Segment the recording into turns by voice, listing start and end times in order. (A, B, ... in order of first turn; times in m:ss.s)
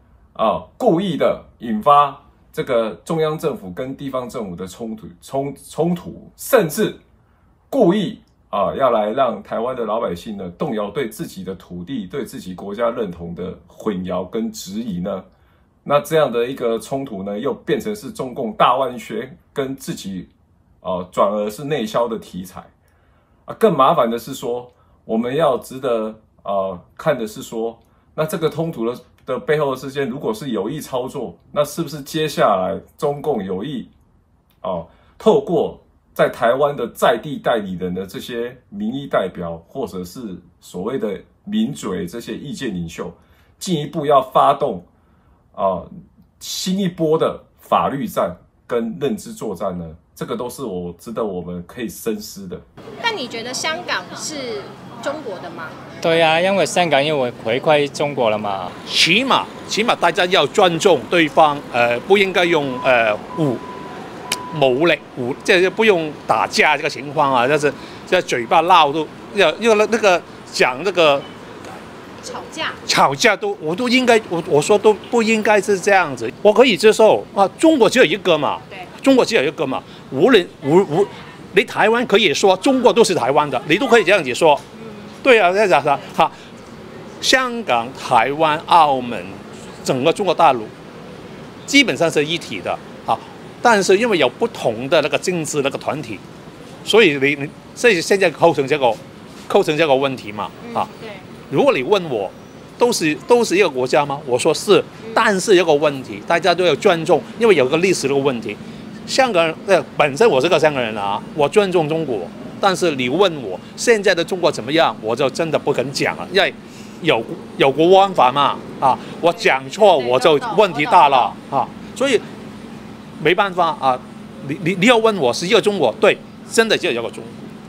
0:00.3-0:07.0 A
0:07.7-0:15.2 A
0:15.8-0:20.3 A
0:20.8-0:22.7 A
0:23.5-0:33.9 A
0:34.6-0:44.9 A
0:45.5-0:45.9 A
0:46.4-0:52.6 A
0:53.0-0:55.8 B
0:56.0-0:58.7 C
0:58.8-1:03.6 D
1:04.5-1:11.2 D
1:12.2-1:12.8 B
1:12.8-1:24.6 D
1:24.7-1:25.2 B
1:25.2-1:26.3 D
1:27.2-1:30.7 D
1:31.7-1:36.2 D
1:36.8-1:40.9 D
1:40.6-1:41.2 B
1:41.5-2:02.2 D
1:45.0-1:45.2 B
1:59.3-2:01.4 B
2:03.2-2:07.5 D